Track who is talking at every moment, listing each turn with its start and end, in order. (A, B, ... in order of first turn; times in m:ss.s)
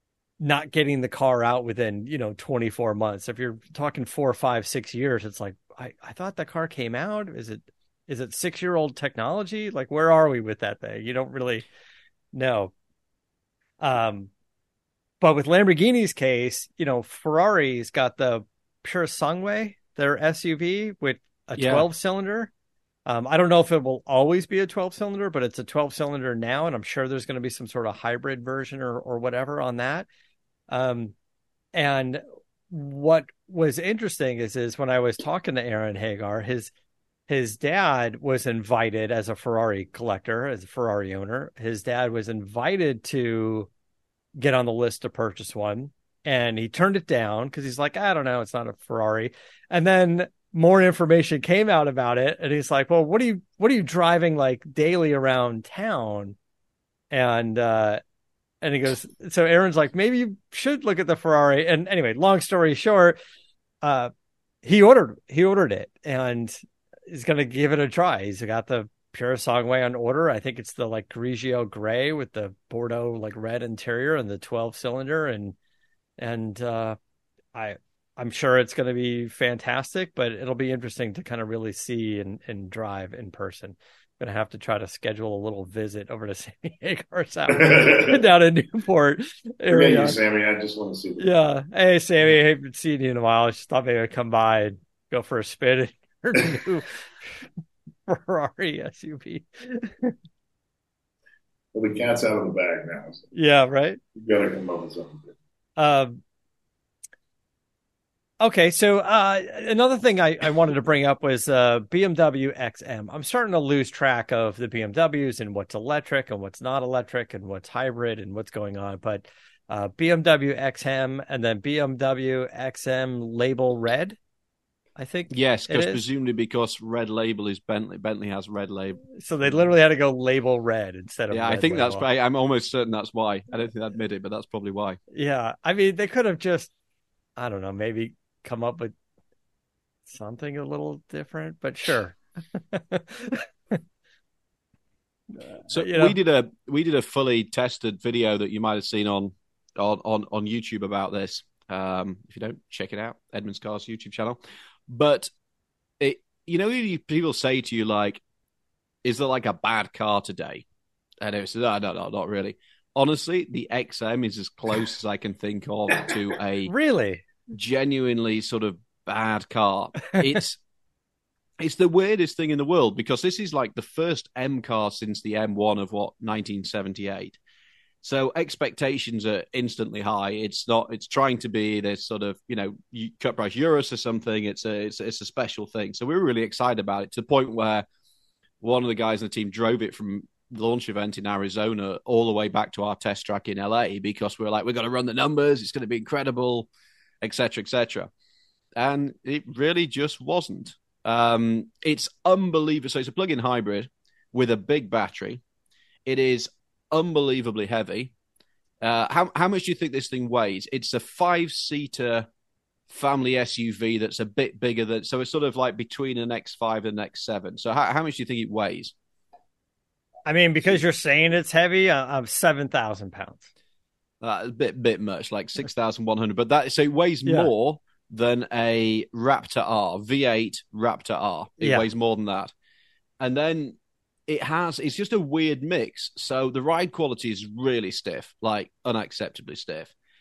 0:00.4-0:11.7 A
0:12.3-0:12.7 A
0:13.8-0:14.3 A
0:15.2-0:22.5 A
0:21.6-0:21.9 B
0:23.1-0:30.1 A
0:30.7-0:31.2 A
0:31.7-0:36.7 A
0:37.3-0:43.7 A
0:44.4-0:56.4 A
0:57.1-0:58.0 A
0:58.6-1:03.2 A
1:03.8-1:04.1 A
1:04.6-1:15.6 A
1:16.2-1:17.0 A
1:17.5-1:30.2 A
1:27.5-1:28.2 C
1:29.7-1:31.4 C
1:31.2-1:37.4 A
1:38.1-1:40.1 A
1:41.7-1:43.3 C
1:43.3-1:44.0 A
1:44.2-1:45.4 C
1:45.8-1:46.2 A
1:48.4-2:04.2 A
2:05.0-2:06.0 A
2:05.3-2:09.1 B
2:09.2-2:12.1 A
2:11.3-2:15.0 B
2:15.1-2:16.7 A
2:17.4-2:18.9 A
2:20.1-2:23.8 A
2:25.6-2:26.2 A
2:25.7-2:35.3 B
2:36.0-2:38.2 B
2:39.0-2:40.6 B
2:41.2-2:46.7 B
2:46.7-2:47.2 A
2:47.5-2:50.6 B
2:51.6-2:57.4 B
2:58.0-3:07.9 B
3:08.6-3:16.7 B
3:17.2-3:18.1 B
3:18.8-3:25.4 B
3:26.1-3:28.1 B
3:28.8-3:32.3 B
3:32.9-3:38.9 B
3:40.3-3:43.4 A
3:44.2-3:52.5 B
3:51.6-3:51.9 A
3:53.2-3:53.8 B
3:54.3-3:59.9 B